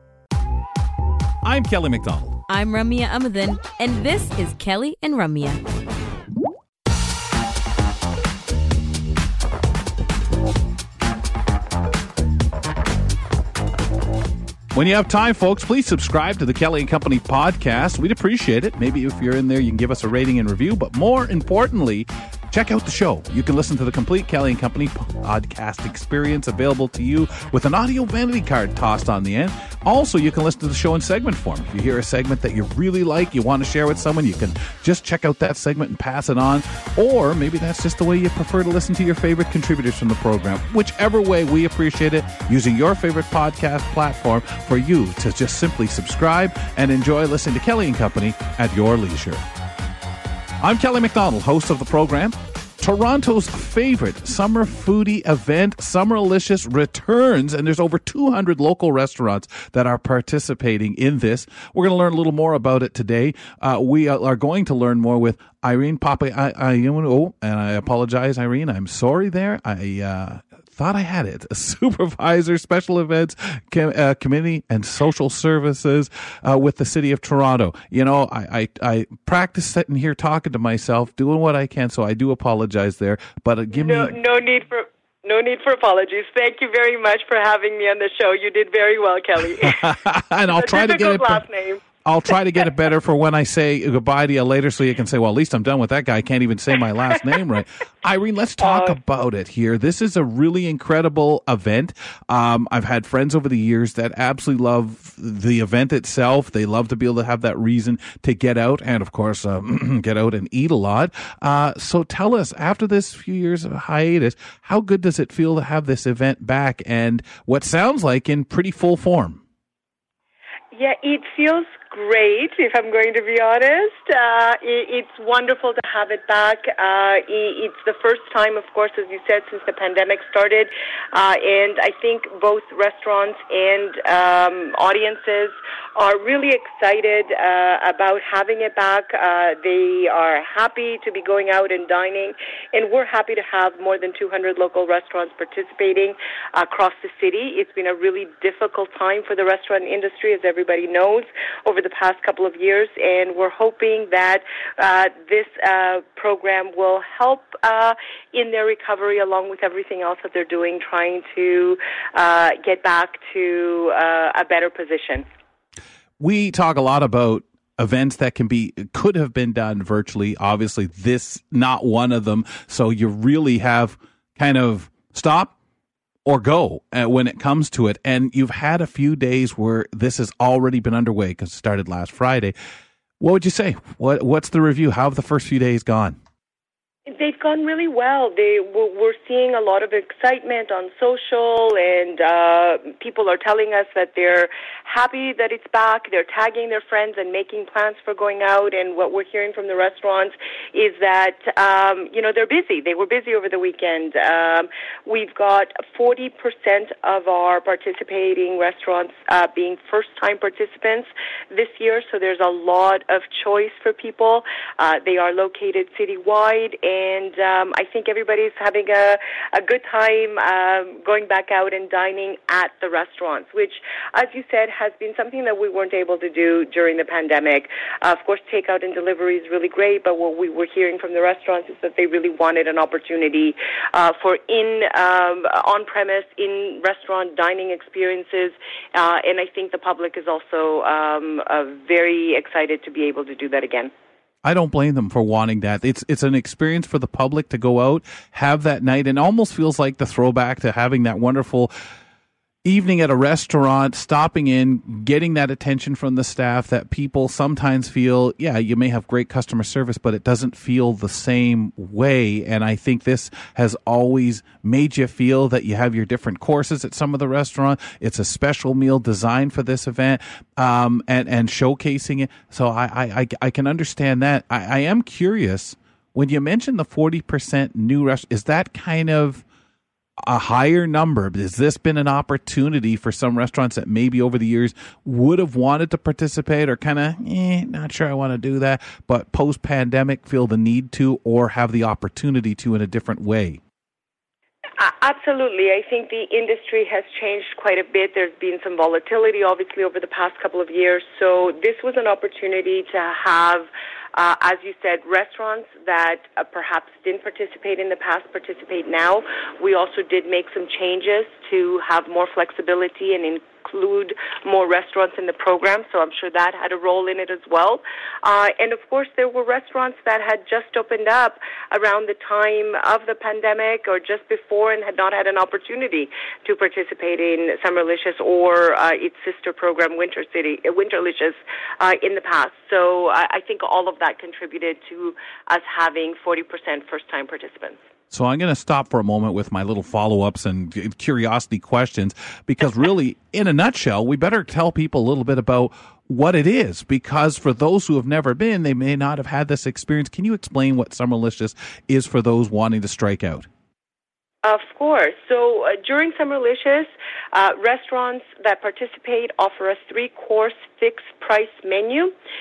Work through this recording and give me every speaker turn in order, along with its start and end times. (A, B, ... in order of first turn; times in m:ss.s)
0:01.4-0:02.4 A
0:02.5-0:05.6 B
0:14.7-0:49.4 A
0:50.6-1:24.2 A
1:23.7-1:29.9 C
1:29.6-1:31.4 A
1:30.5-1:31.8 C
1:32.0-1:59.4 A
1:38.6-1:39.0 C
2:00.7-2:45.2 C
2:46.2-2:55.5 A
2:56.3-3:02.5 A
3:03.2-3:06.2 A
3:07.1-4:03.9 C
4:04.4-4:11.7 A
4:12.6-4:39.4 A
4:40.2-4:53.6 A
4:54.8-5:37.8 C
5:38.1-5:53.5 A
5:54.4-6:02.1 C